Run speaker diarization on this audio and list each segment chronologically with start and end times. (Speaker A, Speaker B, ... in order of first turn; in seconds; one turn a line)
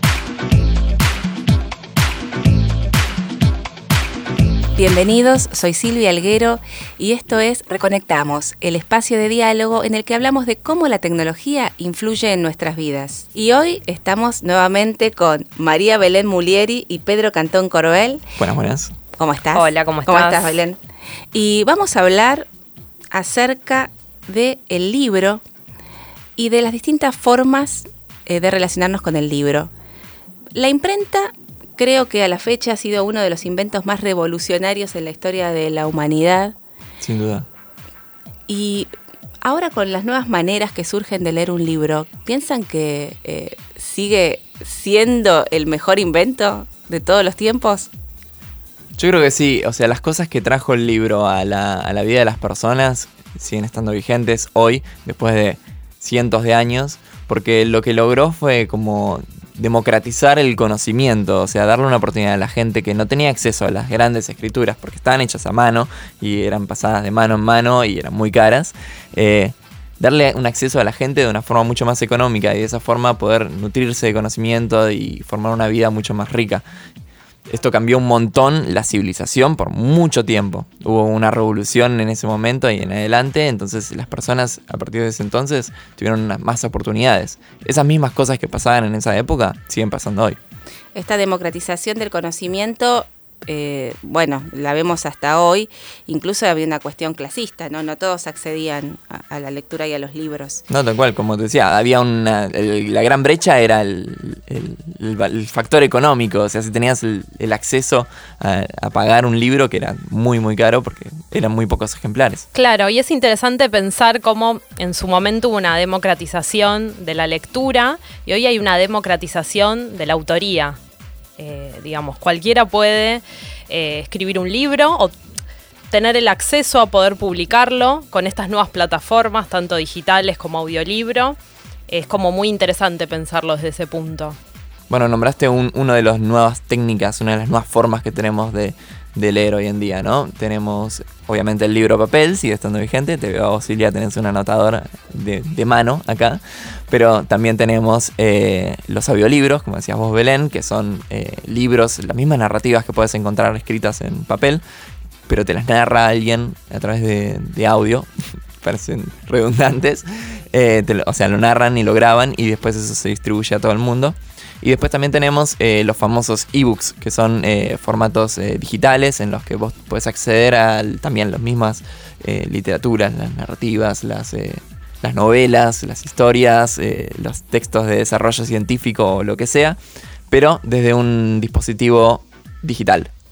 Speaker A: 4.8-18.2
Speaker B: 18.4-18.9
Speaker A: 19.2-20.8
Speaker C: 19.5-20.6
Speaker A: 21.3-22.4
Speaker A: 23.1-25.4
Speaker A: 26.4-29.7
Speaker A: 30.5-36.5
Speaker B: 37.0-37.5
Speaker A: 38.5-38.9
Speaker A: 39.4-47.9
Speaker B: 49.0-76.6
Speaker B: 77.5-90.4
Speaker A: 90.9-100.6
Speaker B: 100.7-112.5
Speaker C: 112.5-120.8
Speaker C: 121.4-125.1
Speaker C: 125.9-131.3
Speaker C: 131.9-134.4
Speaker B: 134.9-154.6
Speaker B: 155.3-158.1
Speaker B: 158.6-179.8
Speaker B: 180.3-183.1